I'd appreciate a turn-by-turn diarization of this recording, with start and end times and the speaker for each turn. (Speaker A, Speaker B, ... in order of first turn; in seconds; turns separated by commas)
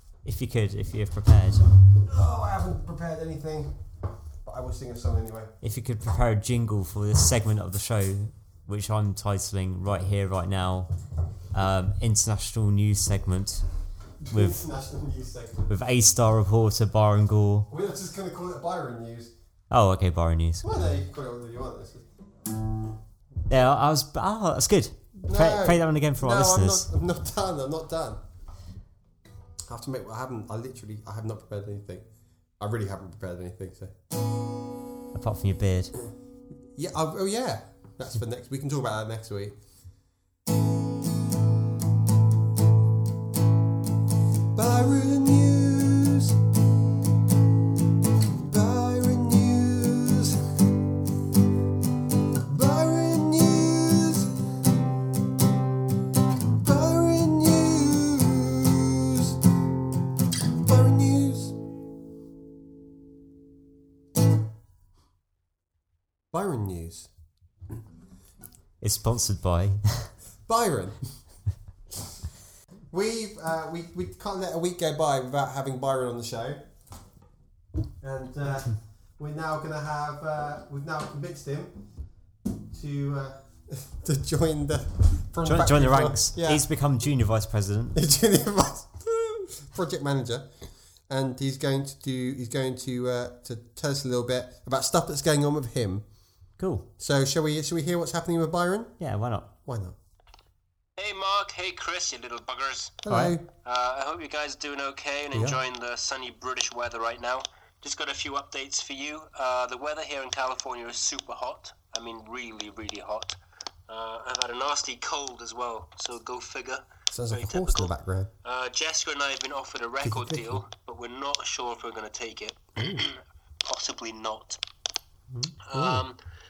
Speaker A: 0.2-1.7, Speaker B: 2.0-3.8, Speaker B: 4.4-5.5, Speaker A: 5.6-10.9, Speaker A: 11.5-13.7, Speaker B: 14.2-15.7, Speaker A: 14.3-14.6, Speaker A: 15.7-17.7, Speaker B: 17.7-19.3, Speaker A: 19.7-20.8, Speaker B: 20.6-22.1, Speaker A: 23.5-26.9, Speaker B: 25.3-28.2, Speaker B: 29.7-32.0, Speaker B: 32.6-33.9, Speaker A: 35.1-35.9, Speaker B: 36.7-39.6, Speaker B: 44.5-46.4, Speaker B: 48.3-50.5, Speaker B: 52.4-54.4, Speaker B: 56.6-59.4, Speaker B: 60.6-61.5, Speaker B: 66.3-67.1, Speaker A: 68.8-70.1, Speaker B: 70.5-71.1, Speaker B: 72.9-76.7, Speaker B: 78.0-81.8, Speaker B: 82.7-86.6, Speaker A: 85.4-88.0, Speaker B: 87.9-90.5, Speaker B: 91.1-96.0, Speaker A: 96.6-96.8, Speaker B: 97.0-98.9, Speaker A: 99.0-99.5, Speaker B: 99.7-100.0, Speaker C: 101.0-103.0, Speaker B: 103.0-103.5, Speaker A: 103.1-103.3, Speaker C: 103.6-113.4, Speaker B: 105.3-105.6, Speaker C: 113.9-117.9, Speaker B: 117.1-118.3, Speaker C: 118.4-124.6, Speaker B: 120.0-120.6, Speaker B: 125.3-126.0, Speaker C: 125.6-126.2